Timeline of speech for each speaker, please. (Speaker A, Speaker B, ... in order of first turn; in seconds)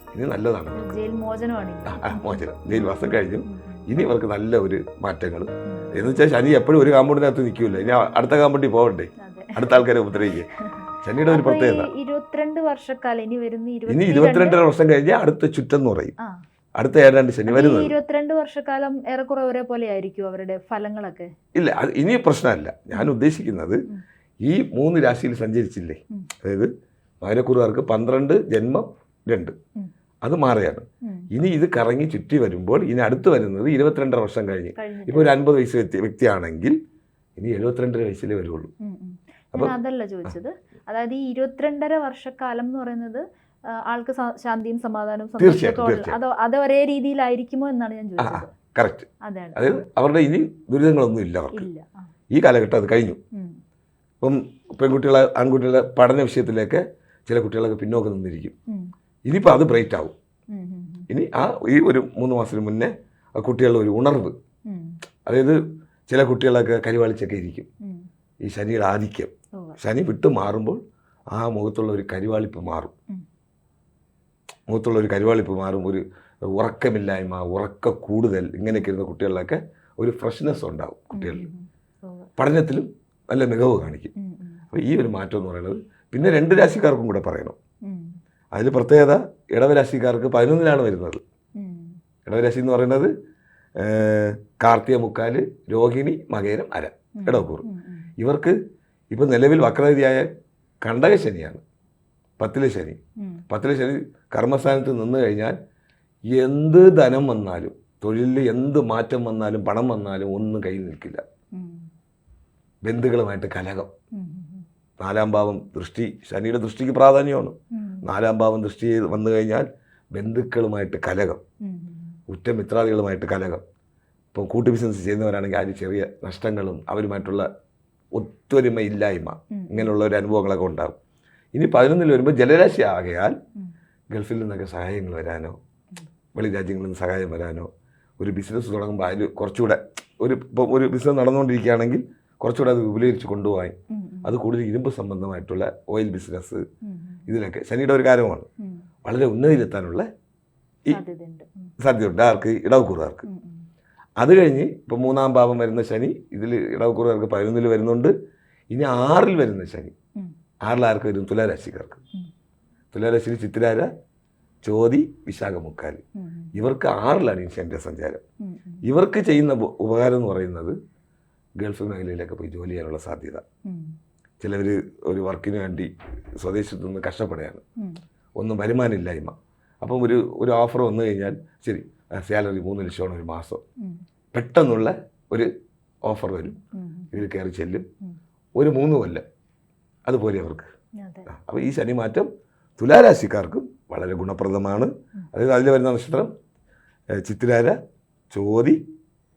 Speaker A: 0.1-1.0, 1.9-10.5, 11.0-11.9, 13.9-16.1, 16.8-17.9, 21.5-23.8, 24.4-29.5, 30.2-36.8, 37.4-38.7, 45.4-46.2, 48.2-51.7, 52.3-53.2, 54.2-58.5, 59.3-60.1, 61.1-64.3, 65.2-65.6, 66.1-67.7, 68.4-70.8, 71.3-72.9, 74.7-76.0, 76.5-81.4, 82.4-84.1, 84.7-87.6, 88.5-91.2, 92.2-93.1, 93.8-97.6, 98.2-98.5, 99.1-100.3, 100.8-101.6, 102.4-103.0, 103.5-105.5, 106.3-111.2, 112.8-113.9, 115.0-121.4, 122.3-123.6, 124.3-127.5, 128.1-130.9, 131.5-133.4, 134.1-135.6, 136.3-146.6, 147.3-148.5, 149.1-150.1, 151.8-153.2, 154.2-158.1, 158.7-159.9, 160.6-162.0, 162.9-163.9, 164.6-166.0, 166.6-168.2, 168.8-170.8, 171.6-173.4, 174.4-177.6, 178.4-183.6, 184.3-185.5, 186.1-186.6, 187.1-187.9, 188.6-189.2, 190.1-190.7, 191.3-196.3, 197.2-197.8, 198.3-198.8
Speaker B: 0.7-2.4, 3.5-3.8, 9.2-9.7, 11.3-14.6, 17.5-21.3, 34.8-35.3, 38.8-48.5, 49.2-49.8, 51.5-52.1, 60.5-61.0, 64.7-64.9, 81.1-82.3, 84.2-84.6, 87.8-88.1, 91.6-91.9, 97.2-98.1, 111.5-111.9, 114.1-114.6, 117.7-118.0, 121.6-122.1, 129.6-129.9, 143.9-144.3, 146.9-147.2, 150.9-151.5, 153.3-153.7, 166.2-166.5, 168.4-168.8, 173.6-173.9, 186.7-187.1, 191.0-191.3